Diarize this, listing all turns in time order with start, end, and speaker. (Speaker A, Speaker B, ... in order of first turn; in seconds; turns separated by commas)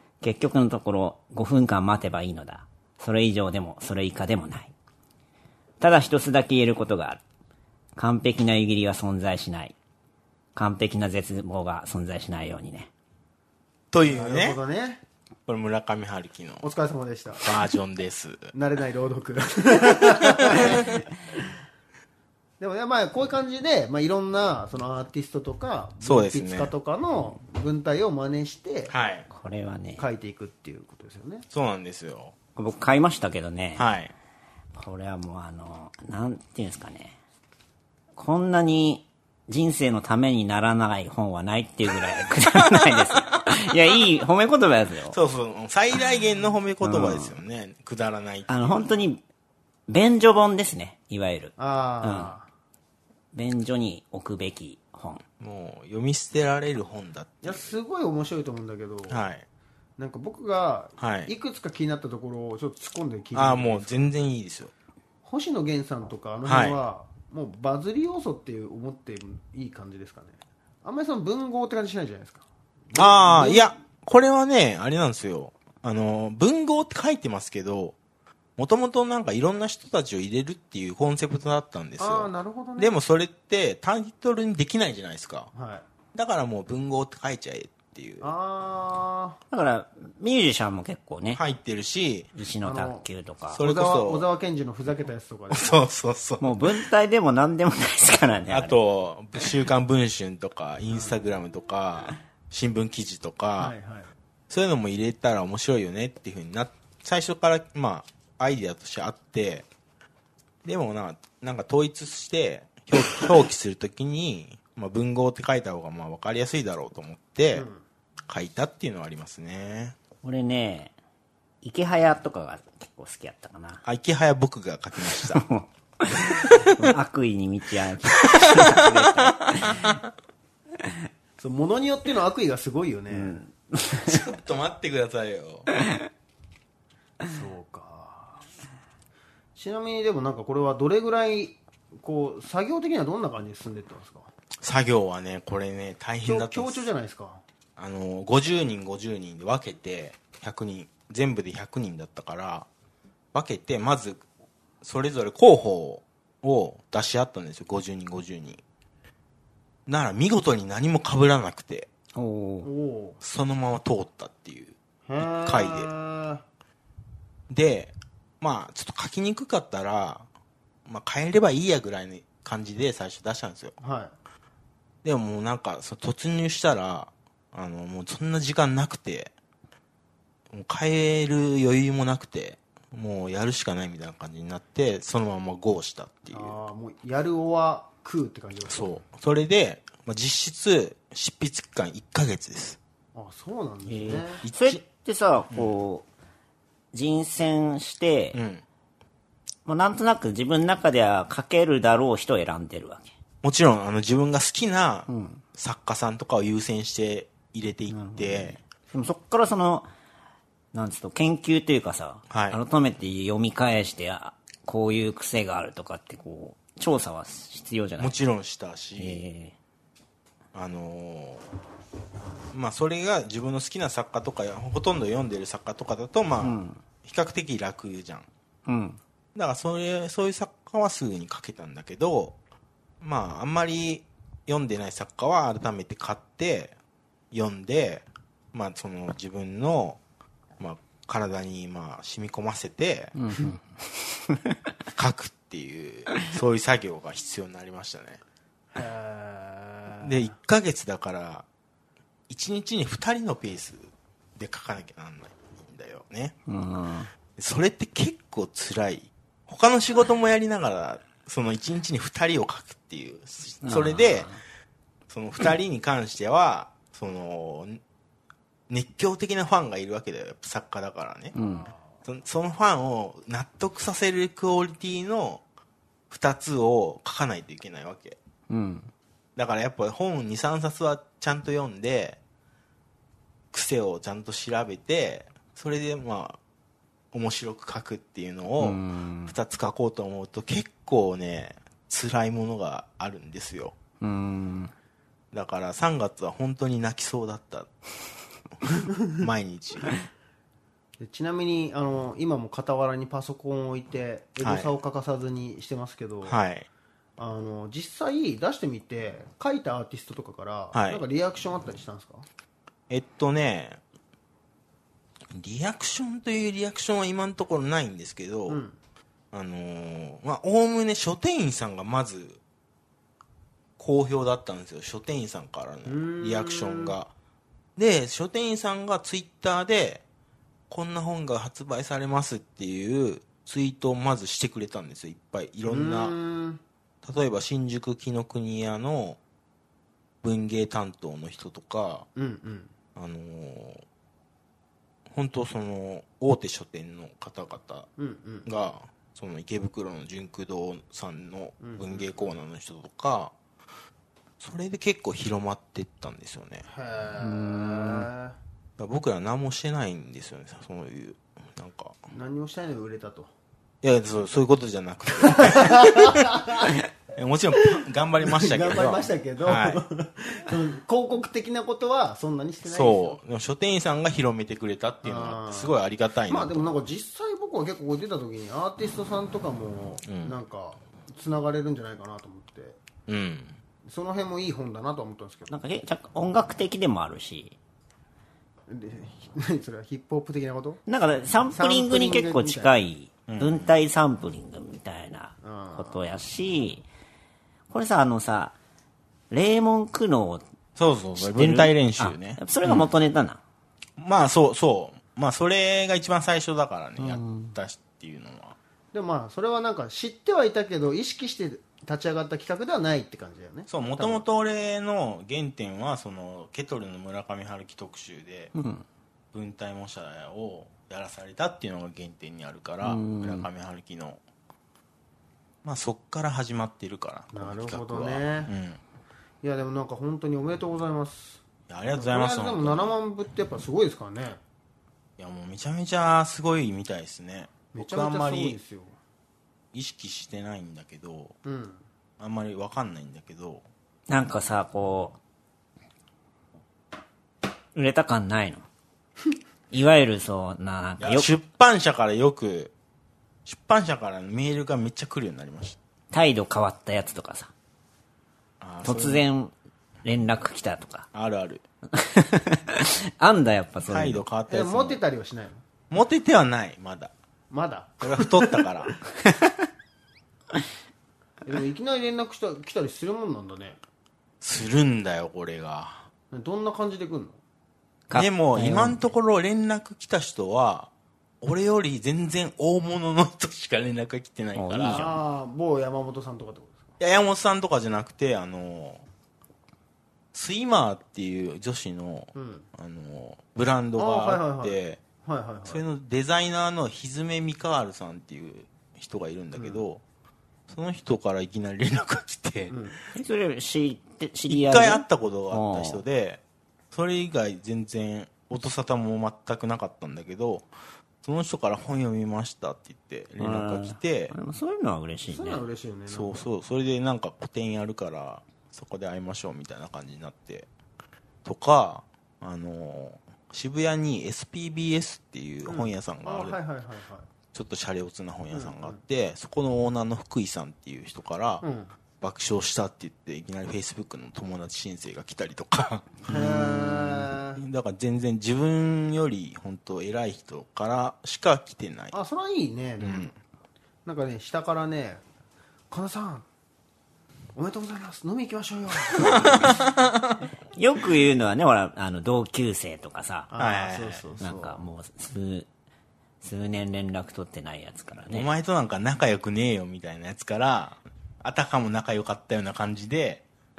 Speaker A: 0.2-4.7, Speaker A: 5.8-7.2, Speaker A: 8.0-9.7, Speaker A: 10.6-12.9, Speaker B: 13.9-14.6, Speaker C: 14.1-15.0, Speaker B: 15.5-16.7, Speaker C: 16.6-17.4, Speaker B: 17.4-18.5, Speaker C: 18.5-20.9, Speaker B: 20.5-20.8, Speaker C: 22.6-28.9, Speaker B: 26.0-26.7, Speaker B: 28.9-29.3, Speaker A: 29.3-30.1, Speaker C: 30.0-31.4, Speaker B: 31.5-32.3, Speaker A: 32.6-33.9, Speaker B: 33.8-34.1, Speaker A: 34.7-37.2, Speaker A: 38.1-45.2, Speaker B: 45.1-48.9, Speaker A: 46.8-47.4, Speaker A: 48.5-49.2, Speaker A: 49.9-52.3, Speaker C: 51.6-52.5, Speaker A: 53.3-55.2, Speaker B: 55.4-57.8, Speaker C: 57.4-59.2, Speaker B: 59.1-59.4, Speaker C: 60.0-64.1, Speaker B: 61.0-61.3, Speaker B: 63.3-64.7, Speaker C: 65.2-73.7, Speaker B: 66.4-66.8, Speaker B: 72.9-78.0, Speaker B: 78.6-85.5, Speaker C: 82.0-82.9, Speaker C: 85.5-85.8, Speaker B: 86.1-88.3, Speaker C: 88.2-89.4, Speaker A: 89.5-91.4, Speaker B: 91.3-92.3, Speaker A: 92.3-93.6, Speaker C: 92.6-93.1, Speaker B: 93.5-94.3, Speaker C: 93.6-95.8, Speaker B: 95.5-96.8, Speaker A: 96.4-98.7, Speaker B: 98.5-103.7, Speaker C: 103.6-104.1, Speaker B: 104.5-109.7, Speaker B: 110.6-117.7, Speaker C: 117.5-117.8, Speaker B: 118.3-120.0, Speaker A: 120.2-120.9, Speaker A: 121.6-123.8, Speaker B: 123.8-125.4, Speaker A: 125.1-129.9, Speaker B: 126.4-126.9, Speaker B: 128.2-130.0, Speaker C: 131.4-133.4, Speaker A: 133.1-134.2, Speaker B: 134.1-135.7, Speaker C: 137.2-138.4, Speaker C: 139.6-144.3, Speaker B: 144.6-146.9, Speaker C: 146.2-147.4, Speaker B: 147.8-152.7, Speaker B: 153.3-154.2, Speaker B: 154.8-158.6, Speaker B: 159.9-161.9, Speaker A: 162.2-162.7, Speaker C: 162.6-163.2, Speaker B: 163.2-165.9, Speaker C: 165.1-166.4, Speaker B: 167.5-170.3, Speaker B: 170.8-173.7, Speaker C: 173.8-174.1, Speaker B: 175.0-179.3, Speaker B: 180.5-186.6, Speaker C: 186.3-189.0, Speaker B: 188.6-192.8, Speaker C: 193.1-194.4, Speaker A: 193.9-196.1, Speaker B: 194.4-194.8, Speaker A: 196.9-198.4, Speaker B: 198.3-198.6, Speaker A: 199.7-203.1, Speaker B: 203.4-208.6, Speaker A: 205.1-205.4, Speaker A: 207.9-209.9, Speaker A: 210.7-218.2, Speaker B: 212.3-212.6, Speaker B: 218.0-219.2, Speaker A: 219.0-219.6, Speaker B: 220.5-221.4, Speaker B: 222.5-228.3, Speaker A: 226.4-226.8, Speaker A: 228.7-229.0, Speaker B: 229.3-232.4, Speaker B: 233.0-236.7, Speaker B: 237.3-240.0, Speaker B: 240.6-243.1, Speaker A: 243.2-244.6, Speaker B: 244.9-248.2, Speaker C: 248.7-250.3, Speaker B: 250.0-251.4, Speaker B: 252.3-256.4, Speaker A: 256.5-257.1, Speaker B: 257.4-264.3, Speaker A: 263.6-264.4, Speaker B: 265.1-267.8, Speaker B: 268.7-271.3, Speaker A: 271.3-271.7, Speaker C: 271.4-271.9, Speaker B: 272.1-275.4, Speaker B: 276.1-278.2, Speaker A: 278.5-278.9, Speaker B: 279.4-282.2, Speaker B: 283.5-286.4, Speaker B: 287.1-293.7, Speaker A: 288.6-289.4, Speaker A: 294.0-294.7, Speaker B: 295.3-297.7, Speaker B: 299.1-299.9, Speaker C: 301.0-306.4, Speaker B: 304.4-304.7, Speaker B: 306.2-306.7, Speaker C: 307.2-312.3, Speaker B: 310.7-311.0, Speaker B: 312.9-313.8, Speaker B: 315.3-318.6, Speaker C: 318.5-318.8, Speaker B: 319.3-322.4, Speaker B: 323.8-327.1, Speaker C: 325.9-326.9, Speaker B: 327.8-330.0, Speaker B: 330.7-336.1, Speaker C: 335.6-336.6, Speaker B: 337.0-339.2, Speaker B: 340.2-342.1, Speaker C: 342.1-342.7, Speaker B: 342.9-343.8, Speaker B: 345.1-347.9, Speaker C: 348.0-348.5, Speaker B: 348.4-353.3, Speaker C: 351.6-352.3, Speaker B: 354.4-356.6, Speaker C: 356.7-358.4, Speaker A: 357.2-358.1, Speaker B: 358.8-362.0, Speaker C: 362.1-363.3, Speaker B: 363.8-366.5, Speaker C: 365.2-366.7, Speaker B: 367.1-369.8, Speaker C: 368.2-373.2, Speaker B: 372.6-376.7, Speaker C: 375.0-375.7, Speaker C: 376.3-382.8, Speaker B: 380.0-380.3, Speaker B: 383.1-383.6, Speaker C: 383.9-385.6, Speaker A: 385.5-387.6, Speaker C: 388.7-390.8, Speaker A: 390.9-396.9, Speaker C: 391.5-392.8, Speaker B: 393.3-393.7, Speaker C: 395.4-396.1, Speaker A: 397.7-398.6, Speaker A: 399.3-400.4, Speaker B: 400.8-402.9, Speaker A: 401.2-403.4, Speaker B: 404.0-408.6, Speaker A: 407.0-407.6, Speaker C: 408.9-414.2, Speaker B: 413.7-418.5, Speaker A: 418.6-418.8, Speaker B: 419.3-424.2, Speaker A: 422.8-423.5, Speaker B: 425.6-428.8, Speaker C: 427.3-428.5, Speaker C: 429.4-434.4, Speaker B: 431.7-432.9, Speaker B: 435.2-438.6, Speaker C: 437.7-439.0, Speaker B: 439.7-441.4, Speaker C: 441.4-441.9, Speaker B: 442.2-443.6, Speaker A: 444.1-445.2, Speaker A: 447.7-448.6, Speaker A: 449.7-451.3, Speaker B: 451.0-452.7, Speaker B: 453.4-455.8, Speaker A: 456.1-457.5, Speaker B: 458.6-459.2, Speaker A: 458.9-459.5, Speaker A: 460.0-461.1, Speaker B: 461.1-461.6, Speaker A: 461.9-464.2, Speaker B: 463.9-465.0, Speaker C: 464.5-465.6, Speaker B: 465.9-467.1, Speaker C: 467.5-468.6, Speaker B: 468.0-468.9, Speaker C: 471.4-473.8, Speaker B: 474.4-476.1, Speaker C: 476.3-477.4, Speaker A: 478.1-479.0, Speaker B: 478.1-480.9, Speaker B: 481.4-485.1, Speaker A: 484.6-485.2, Speaker C: 484.9-486.9, Speaker B: 487.0-489.0, Speaker B: 490.3-495.0, Speaker C: 492.4-492.6, Speaker C: 494.0-495.8, Speaker B: 495.6-500.0, Speaker C: 499.6-499.8, Speaker B: 500.7-502.8, Speaker C: 502.7-503.0, Speaker A: 503.1-506.0, Speaker B: 504.5-510.7, Speaker B: 511.2-514.3, Speaker A: 513.4-515.6, Speaker C: 515.3-516.5, Speaker B: 516.1-520.7, Speaker B: 521.4-526.6, Speaker C: 525.7-527.3, Speaker B: 527.5-531.6, Speaker C: 528.5-529.0, Speaker C: 531.6-531.9, Speaker B: 532.2-542.1, Speaker C: 536.2-537.6, Speaker C: 542.1-543.3, Speaker B: 543.0-543.3, Speaker C: 544.0-545.2, Speaker C: 545.9-546.5, Speaker C: 547.6-549.8, Speaker B: 549.1-550.4, Speaker A: 550.8-553.5, Speaker C: 553.5-554.8, Speaker B: 553.6-554.3, Speaker A: 554.4-555.7, Speaker A: 556.4-558.5, Speaker B: 558.3-563.4